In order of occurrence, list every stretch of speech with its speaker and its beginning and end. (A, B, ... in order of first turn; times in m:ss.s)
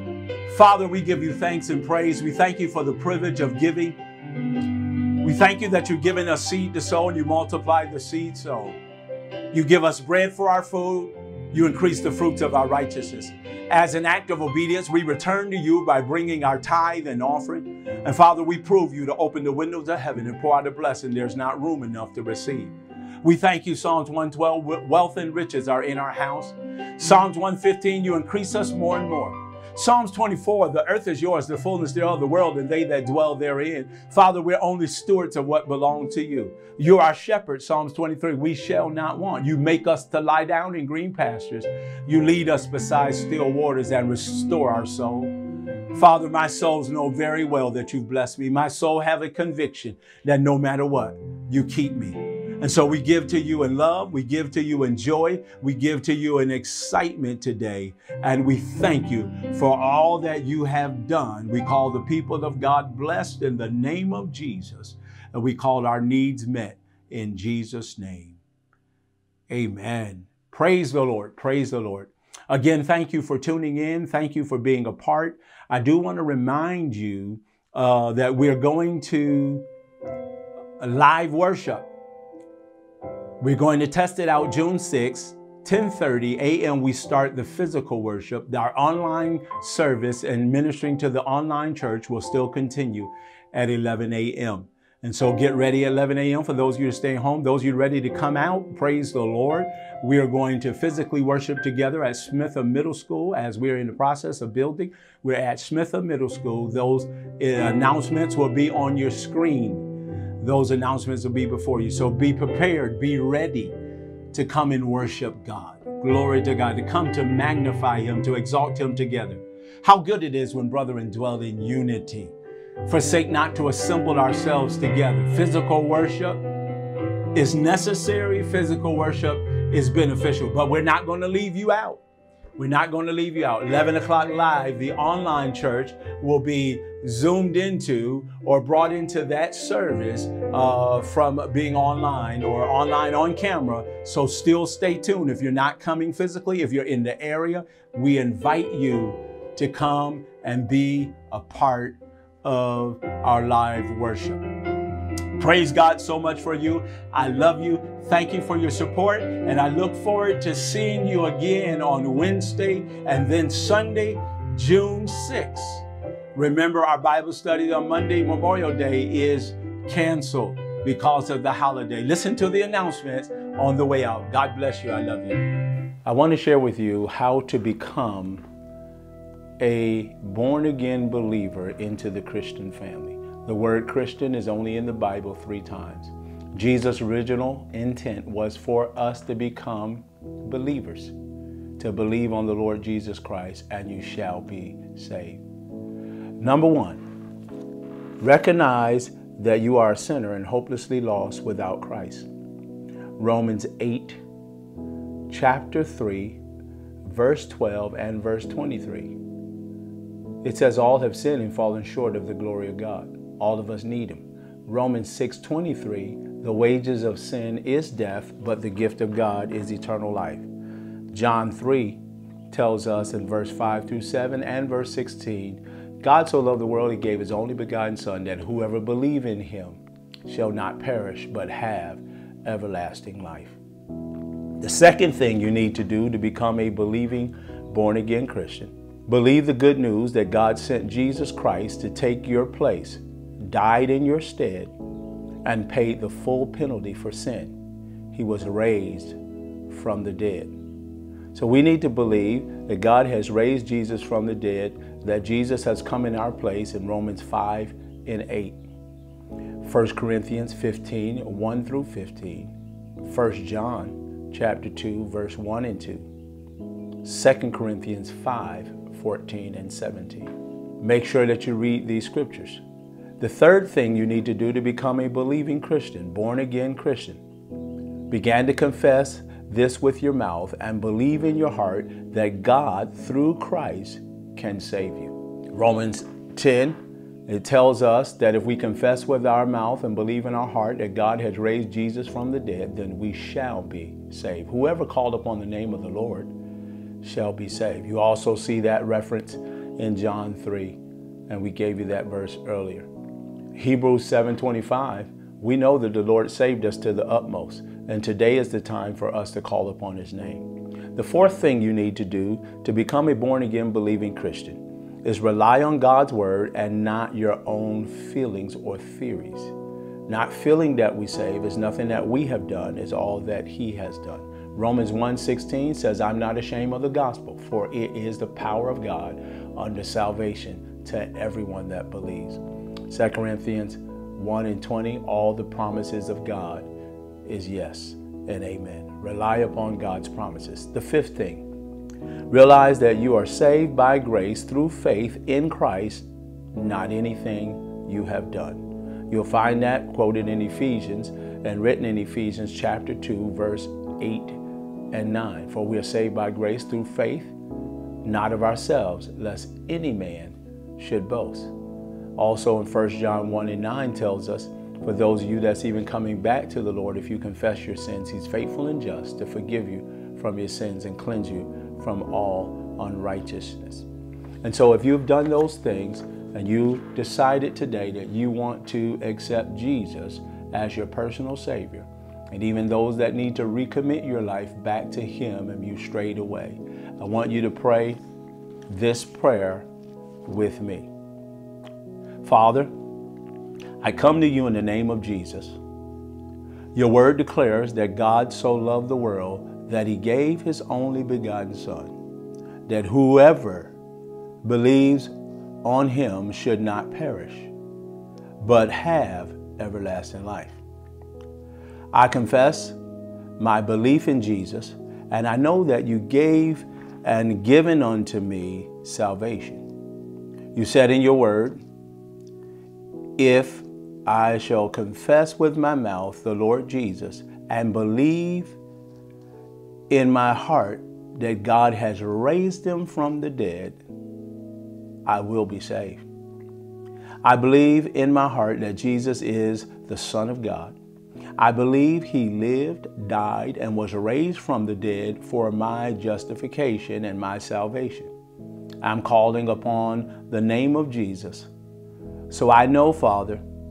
0:00.5-0:04.0 A
0:05.2-0:08.8 A
0:09.5-0:45.3 A
0:45.9-1:08.4 A
1:09.5-1:19.6 A
1:20.8-1:21.9 A
1:23.4-1:49.9 A
1:50.4-1:53.7 A
1:54.3-2:02.3 A
2:02.8-2:06.4 A
2:07.4-2:12.0 A
2:12.6-2:34.4 A
2:35.4-2:55.5 A
2:56.1-2:58.4 A
2:59.6-3:11.1 A
3:11.8-3:15.4 A
3:16.4-3:17.0 A
3:18.2-3:22.3 A
3:23.2-3:24.2 A
3:25.3-3:26.4 A
3:27.0-3:29.2 A
3:30.4-3:40.4 A
3:41.1-3:53.6 A
3:54.6-4:04.7 A
4:05.4-4:07.6 A
4:08.1-4:09.2 A
4:09.7-4:10.6 A
4:11.3-4:18.6 A
4:19.6-4:26.1 A
4:27.0-4:32.6 A
4:33.2-4:37.2 A
4:38.1-4:56.3 A
4:57.0-5:02.9 A
5:03.6-5:19.5 A
5:20.1-5:36.7 A
5:37.2-5:41.5 A
5:42.3-5:54.4 A
5:54.9-5:57.3 A
5:58.0-6:01.5 A
6:02.2-6:13.9 A
6:14.4-6:28.0 A
6:28.7-6:29.7 A
6:30.2-6:30.9 A
6:32.2-6:32.7 A
6:33.8-6:35.6 A
6:36.8-6:42.0 A
6:42.7-6:43.7 A
6:44.4-6:45.1 A
6:45.6-6:47.5 A
6:48.4-6:50.6 A
6:51.9-6:52.8 A
6:53.4-6:59.6 A
7:00.5-7:01.6 A
7:03.2-7:08.6 A
7:09.9-7:13.8 A
7:15.0-7:16.0 A
7:17.2-7:20.8 A
7:21.4-7:28.1 A
7:28.8-7:31.5 A
7:32.3-7:33.4 A